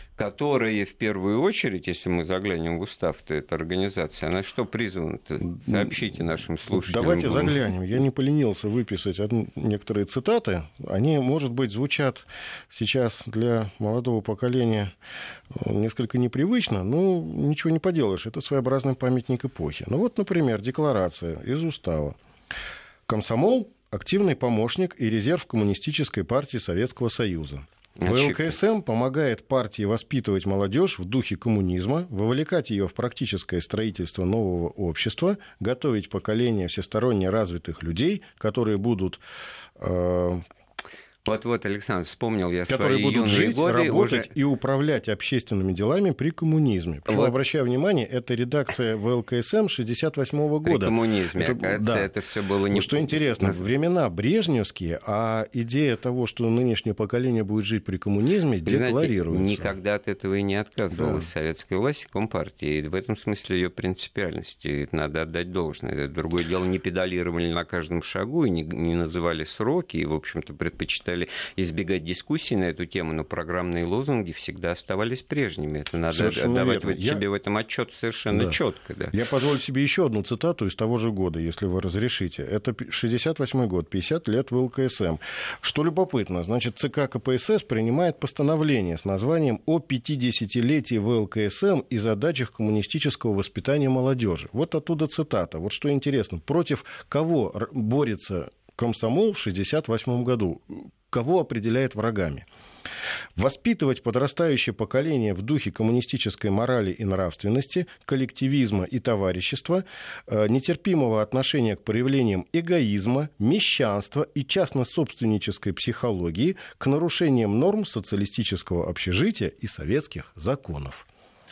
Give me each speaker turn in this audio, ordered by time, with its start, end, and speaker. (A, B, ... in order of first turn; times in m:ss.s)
0:00.2-0:07.6 A
0:05.6-0:06.0 B
0:06.7-0:14.9 B
0:15.5-0:22.2 B
0:23.1-0:39.2 B
0:28.0-0:28.6 A
0:39.8-0:40.4 B
0:41.2-0:44.3 A
0:42.7-0:52.1 B
0:47.1-0:47.3 A
0:50.6-0:53.6 A
0:52.7-0:59.7 B
0:58.6-1:19.1 A
1:00.9-1:01.3 B
1:16.1-1:17.2 B
1:18.3-1:18.6 B
1:19.1-1:42.4 B
1:43.4-2:01.1 B